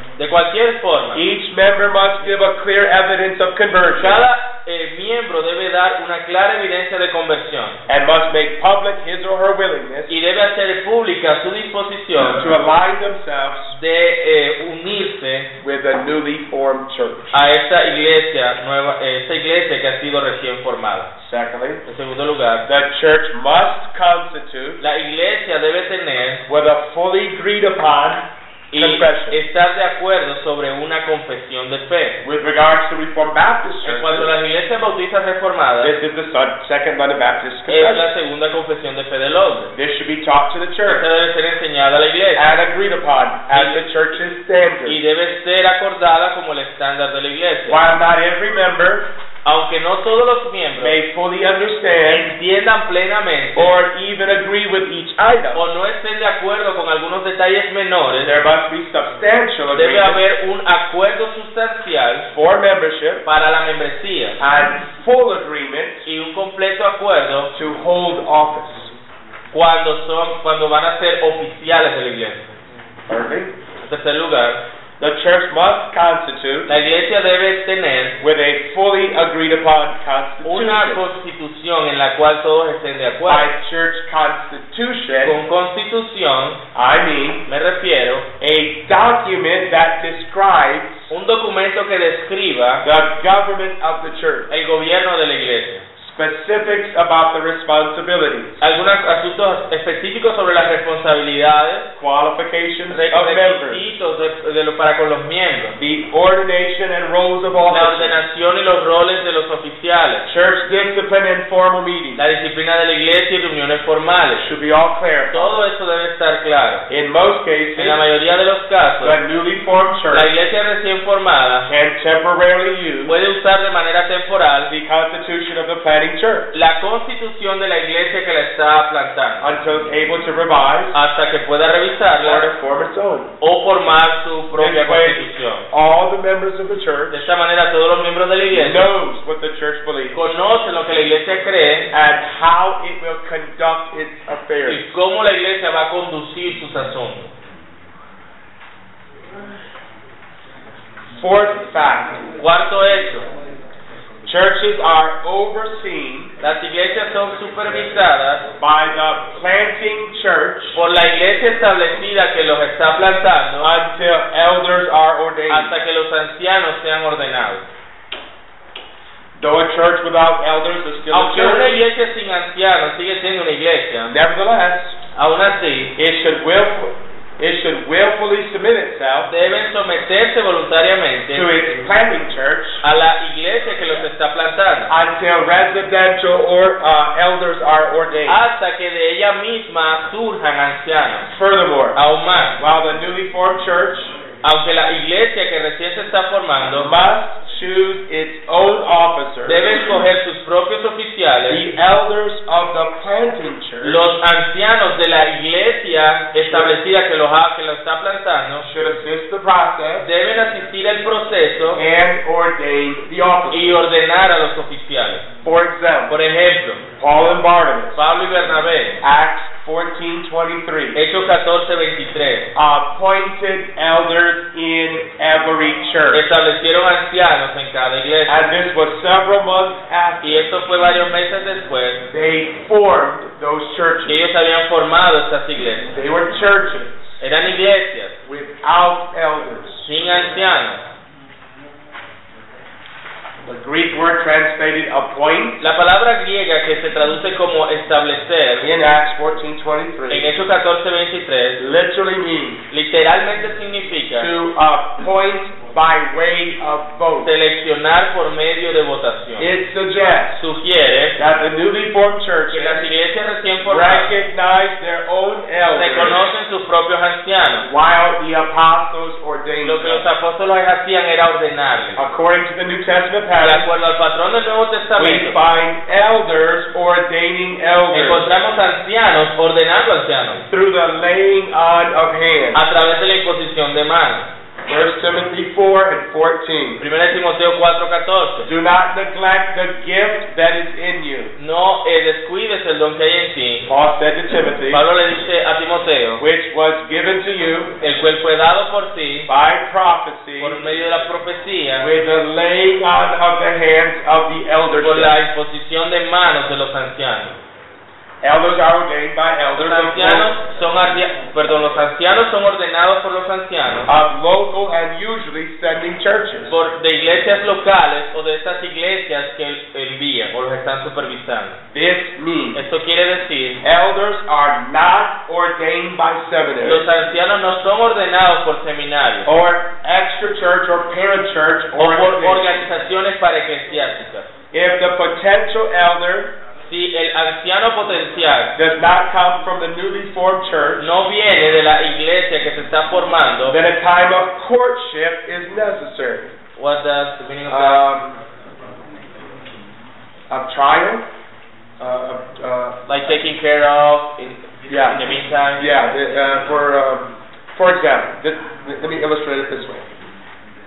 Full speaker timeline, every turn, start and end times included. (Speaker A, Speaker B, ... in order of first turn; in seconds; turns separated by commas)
Speaker A: 0.2-1.2, Speaker B: 1.1-4.2, Speaker A: 4.0-7.8, Speaker B: 7.9-10.2, Speaker A: 10.1-12.5, Speaker B: 12.2-13.7, Speaker A: 13.7-15.5, Speaker B: 15.6-17.3, Speaker A: 17.3-21.1, Speaker B: 21.2-21.8, Speaker A: 21.9-22.6, Speaker B: 22.6-24.8, Speaker A: 24.8-26.4, Speaker B: 26.5-29.4, Speaker A: 28.7-32.2, Speaker B: 32.2-34.3, Speaker A: 33.8-35.9, Speaker B: 35.8-38.1, Speaker A: 37.7-39.7, Speaker B: 39.7-41.1, Speaker A: 40.9-42.5, Speaker B: 42.3-45.0, Speaker A: 43.5-43.8, Speaker A: 44.9-47.8, Speaker B: 47.7-49.1, Speaker A: 49.4-51.0, Speaker B: 50.8-52.3, Speaker A: 52.1-53.7, Speaker B: 53.5-55.6, Speaker A: 55.5-58.3, Speaker B: 58.2-60.2, Speaker A: 59.7-62.2, Speaker B: 62.2-63.2, Speaker A: 63.2-64.4, Speaker B: 64.4-66.0, Speaker A: 66.0-67.5, Speaker B: 67.5-68.9, Speaker A: 69.5-72.4, Speaker B: 73.1-73.5, Speaker A: 73.8-74.6, Speaker B: 75.0-76.7, Speaker A: 76.7-78.2, Speaker B: 78.2-81.0, Speaker A: 80.4-83.5, Speaker B: 83.2-85.4, Speaker A: 85.2-86.6, Speaker B: 86.7-87.4, Speaker A: 87.5-88.3, Speaker B: 88.4-91.1, Speaker A: 91.1-92.8, Speaker B: 92.8-94.5, Speaker A: 94.5-95.8, Speaker B: 96.0-98.6, Speaker A: 98.6-101.9, Speaker B: 102.0-103.8, Speaker A: 102.9-105.8, Speaker B: 105.8-108.1, Speaker A: 107.7-110.2, Speaker B: 110.2-112.2, Speaker A: 112.2-114.5, Speaker B: 114.4-115.6, Speaker A: 115.3-116.8, Speaker B: 116.9-118.0, Speaker A: 117.8-119.2, Speaker B: 119.0-120.3, Speaker A: 120.1-121.7, Speaker B: 121.7-123.1, Speaker A: 123.0-124.7, Speaker B: 124.7-126.5, Speaker A: 126.5-129.5, Speaker B: 129.4-130.9, Speaker A: 130.9-132.5, Speaker B: 132.2-133.3, Speaker A: 133.4-135.7, Speaker B: 134.6-137.3, Speaker A: 137.1-138.9, Speaker B: 138.5-140.2, Speaker A: 140.1-141.9, Speaker B: 141.9-144.9, Speaker A: 144.7-147.3, Speaker B: 151.1-152.2, Speaker A: 152.4-153.2, Speaker B: 154.2-156.3, Speaker A: 156.4-158.4, Speaker B: 158.6-160.8, Speaker A: 160.7-163.7, Speaker B: 163.6-165.8, Speaker A: 165.5-167.6, Speaker B: 169.3-171.8, Speaker A: 171.1-174.1, Speaker B: 174.1-174.9, Speaker A: 175.1-175.9, Speaker B: 175.9-179.3, Speaker A: 179.3-181.5, Speaker B: 181.3-182.8, Speaker A: 182.8-184.9, Speaker B: 184.9-188.4, Speaker A: 188.3-191.3, Speaker B: 191.3-192.0, Speaker A: 191.9-192.6, Speaker B: 192.6-194.1, Speaker A: 194.4-196.9, Speaker B: 196.7-200.0, Speaker A: 199.4-201.6, Speaker B: 201.5-204.0, Speaker A: 203.8-208.7, Speaker B: 206.4-206.7, Speaker B: 208.6-210.1, Speaker A: 210.0-211.8, Speaker B: 211.7-213.8, Speaker A: 213.5-215.2, Speaker B: 215.4-216.2, Speaker A: 216.1-216.8, Speaker B: 217.0-218.0, Speaker A: 217.9-219.0, Speaker B: 219.0-221.0, Speaker A: 220.9-222.5, Speaker B: 222.5-226.2, Speaker A: 226.1-228.4, Speaker B: 228.3-230.5, Speaker A: 230.2-232.0, Speaker B: 232.1-234.2, Speaker A: 234.1-235.8, Speaker B: 235.9-237.2, Speaker A: 237.2-238.1, Speaker B: 238.2-239.9, Speaker A: 239.8-240.8, Speaker B: 243.4-245.6, Speaker A: 245.6-248.7, Speaker B: 248.6-250.3, Speaker A: 250.1-251.6, Speaker B: 251.6-252.6, Speaker A: 252.7-254.3, Speaker B: 254.1-257.3, Speaker A: 257.2-259.5, Speaker B: 259.4-260.4, Speaker A: 260.4-261.1, Speaker B: 261.1-262.9, Speaker A: 262.5-264.1, Speaker B: 263.7-266.2, Speaker A: 265.6-267.7, Speaker B: 267.6-270.1, Speaker A: 269.6-272.0, Speaker B: 271.9-273.7, Speaker A: 273.4-275.4, Speaker B: 275.0-278.2, Speaker A: 277.9-280.4, Speaker B: 280.5-282.6, Speaker A: 282.5-284.3, Speaker B: 284.7-286.8, Speaker A: 286.8-288.5, Speaker B: 288.4-291.3, Speaker A: 291.4-293.7, Speaker B: 293.7-294.8, Speaker A: 294.7-296.2, Speaker B: 296.2-297.8, Speaker A: 297.8-299.3, Speaker B: 299.3-300.6, Speaker A: 300.4-301.9, Speaker B: 301.8-305.2, Speaker A: 304.8-307.3, Speaker B: 308.2-310.3, Speaker A: 309.6-313.9, Speaker B: 313.9-316.5, Speaker A: 316.5-321.6, Speaker B: 321.7-322.6, Speaker A: 322.5-323.6, Speaker B: 323.6-326.9, Speaker A: 326.6-329.3, Speaker B: 329.2-332.6, Speaker A: 331.8-334.2, Speaker B: 334.5-336.3, Speaker A: 336.7-338.5, Speaker B: 338.6-340.9, Speaker A: 340.8-343.6, Speaker B: 343.5-346.3, Speaker A: 346.6-347.8, Speaker B: 347.4-348.1, Speaker B: 350.3-351.1, Speaker B: 351.8-352.8, Speaker A: 352.9-355.8, Speaker B: 354.7-355.0, Speaker B: 355.6-359.9